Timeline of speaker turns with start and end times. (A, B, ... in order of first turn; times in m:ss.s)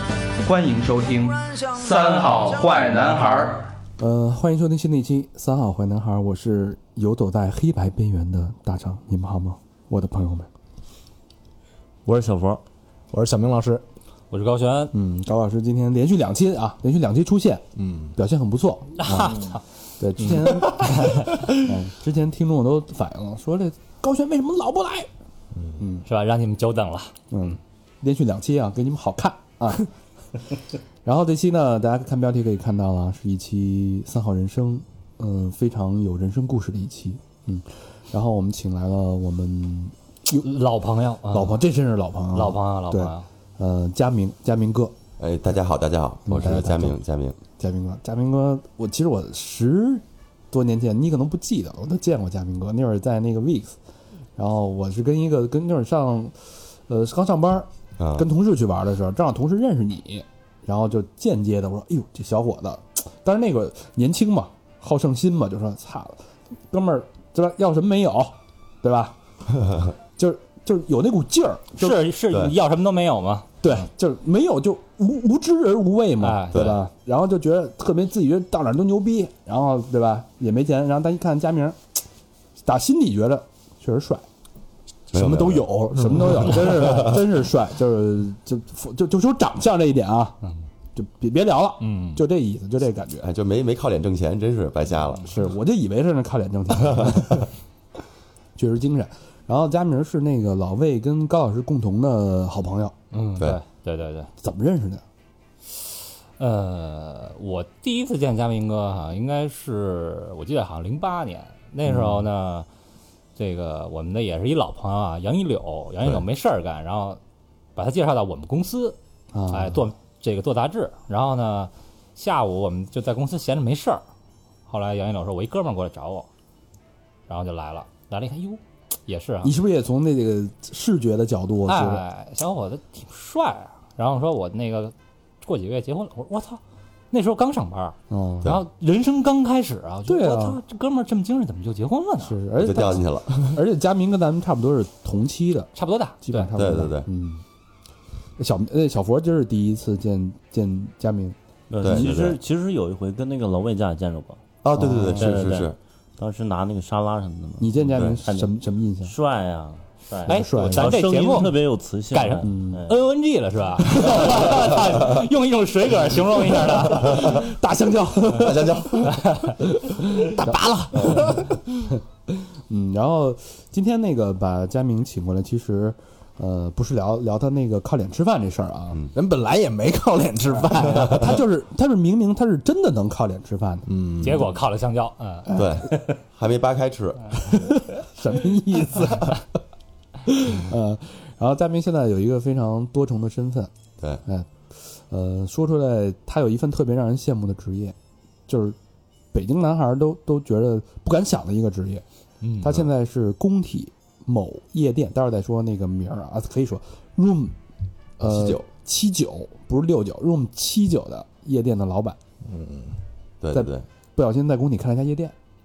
0:00.4-0:03.6 A
0:04.0-0:10.5 B
0:12.1-0:12.6 C
0:13.1-0:13.8 D
0:14.3-0:14.9 E
0:14.9-0:17.6 B
0:17.8-0:18.1 D
0:18.2-0:25.1 B
0:19.0-0:19.6 E
0:20.2-0:20.9 D
0:25.6-0:25.8 D
0:25.8-0:26.1 B
0:26.1-0:27.1 E
0:27.3-0:29.9 B
0:31.0-0:40.5 B
0:40.4-0:41.6 E
0:41.3-0:44.9 B
0:42.3-0:43.3 E
0:45.2-0:47.4 F
0:46.3-0:47.0 B
0:47.6-0:53.8 B
0:54.4-1:06.2 B
0:58.0-0:58.3 F
1:06.7-1:09.2 B
1:09.6-1:09.9 F
1:10.2-1:12.0 B
1:11.8-1:13.5 E
1:12.3-1:12.6 F
1:13.6-1:21.8 B
1:16.2-1:16.7 E
1:16.5-1:16.8 F
1:22.6-1:24.2 B
1:25.1-1:27.3 F
1:25.1-1:26.7 D
1:26.0-1:30.4 B
1:31.0-1:33.3 B
1:31.8-1:32.2 E
1:33.2-1:35.2 F
1:35.3-1:37.5 B
1:36.8-1:37.3 F
1:38.6-1:43.0 B
1:43.1-1:44.3 E
1:44.4-1:45.0 B
1:45.7-1:52.7 E
1:51.9-1:52.2 B
1:53.4-1:57.2 E
1:57.8-1:59.0 E
1:59.3-1:59.8 B
1:59.5-2:04.0 E
2:04.7-2:06.3 E
2:07.3-2:09.5 E
2:09.4-2:12.0 B
2:11.7-2:16.6 E
2:17.1-2:22.4 E
2:18.1-2:18.6 B
2:20.1-2:20.6 B
2:22.2-2:25.7 B
2:22.6-2:23.6 F
2:25.8-2:26.5 E
2:26.2-2:27.4 B
2:26.6-2:27.1 F
2:28.4-2:32.4 B
2:31.7-2:34.4 C
2:31.8-2:32.3 F
2:34.6-2:35.8 F
2:34.8-2:35.4 B
2:35.2-2:43.0 C
2:37.6-2:39.1 B
2:37.9-2:38.2 F
2:40.3-2:41.0 B
2:40.3-2:47.4 E
2:42.4-2:42.9 B
2:46.9-2:48.9 B
2:48.3-2:49.3 F
2:49.6-2:51.4 B
2:50.2-2:51.6 D
2:51.0-2:51.4 F
2:52.7-2:59.0 B
2:59.2-3:01.3 D
3:00.8-3:03.9 B
3:00.9-3:01.4 F
3:03.9-3:04.5 D
3:04.2-3:05.5 E
3:05.6-3:07.4 F
3:07.4-3:09.4 B
3:10.3-3:13.7 B
3:15.1-3:18.0 B
3:18.5-3:18.8 B
3:19.3-3:22.0 B
3:22.4-3:22.8 E
3:22.6-3:27.6 B
3:28.2-3:32.2 B
3:28.2-3:28.7 F
3:32.4-3:33.0 D
3:33.4-3:33.9 F
3:33.5-3:35.3 B